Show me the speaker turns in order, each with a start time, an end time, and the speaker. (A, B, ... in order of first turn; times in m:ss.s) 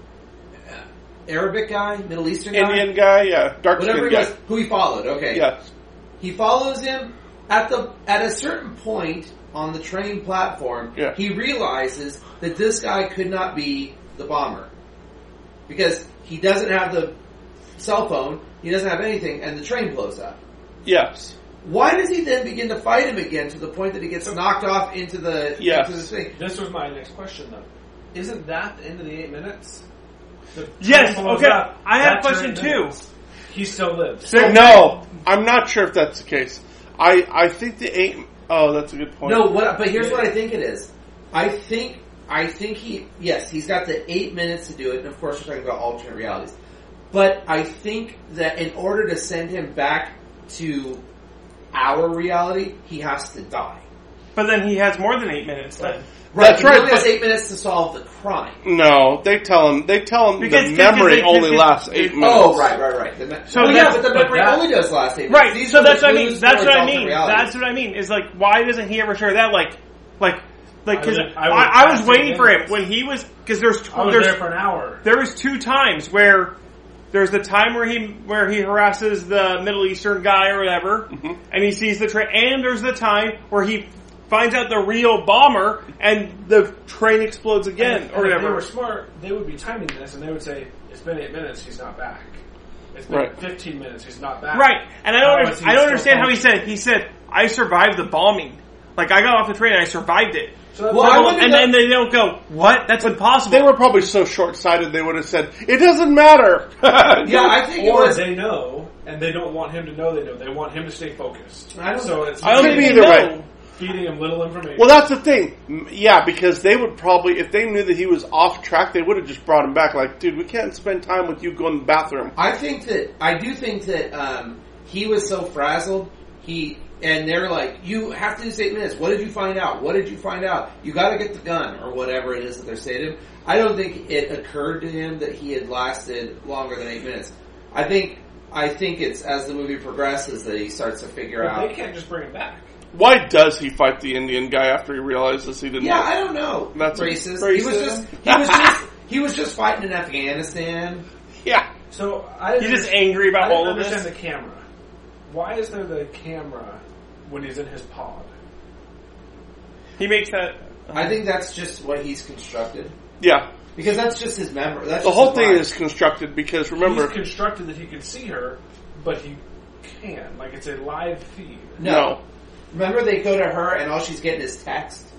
0:00.7-0:03.0 A
0:02.5-0:04.3 B
0:03.8-0:05.4 A
0:05.3-0:05.6 B
0:06.2-0:14.7 A
0:15.7-0:17.2 A
0:17.8-0:20.4 A
0:20.8-0:21.3 B
0:21.6-0:26.3 A
0:25.6-0:26.1 B
0:26.3-0:29.8 C
0:30.5-0:34.6 C
0:30.8-0:33.0 D
0:34.2-0:34.9 D
0:34.3-0:34.8 A
0:34.4-0:39.6 B
0:39.2-0:46.5 A
0:40.0-0:40.3 C
0:47.1-0:51.0 A
0:51.7-0:53.8 A
0:54.3-0:56.0 D
0:56.3-0:58.6 A
0:56.3-0:57.1 B
0:58.6-1:02.8 B
1:00.4-1:02.6 D
1:02.2-1:07.5 A
1:03.5-1:04.2 D
1:03.5-1:04.7 C
1:05.3-1:14.4 D
1:10.8-1:12.7 C
1:13.9-1:15.0 C
1:15.0-1:16.5 D
1:17.1-1:28.6 D
1:21.1-1:21.4 B
1:27.8-1:32.4 C
1:32.9-1:36.7 C
1:34.5-1:43.7 D
1:40.7-1:41.4 C
1:40.9-1:41.7 A
1:43.0-1:47.6 B
1:47.2-1:48.2 A
1:47.4-1:55.0 C
1:51.7-1:52.7 A
1:52.4-1:53.5 D
1:52.4-1:53.4 B
1:54.8-2:02.3 B
2:02.4-2:21.7 A
2:21.4-2:22.7 C
2:22.9-2:26.1 B
2:25.8-2:31.0 A
2:26.7-2:27.2 B
2:27.4-2:28.0 D
2:28.2-2:28.8 B
2:31.9-2:34.6 C
2:32.6-2:34.1 D
2:35.3-2:38.3 C
2:40.0-2:41.2 D
2:40.9-2:42.9 A
2:43.2-2:43.5 B
2:43.7-2:45.6 A
2:45.0-2:47.2 B
2:46.8-2:51.8 C
2:51.8-2:52.2 A
2:51.8-2:52.2 B
2:52.7-2:55.1 A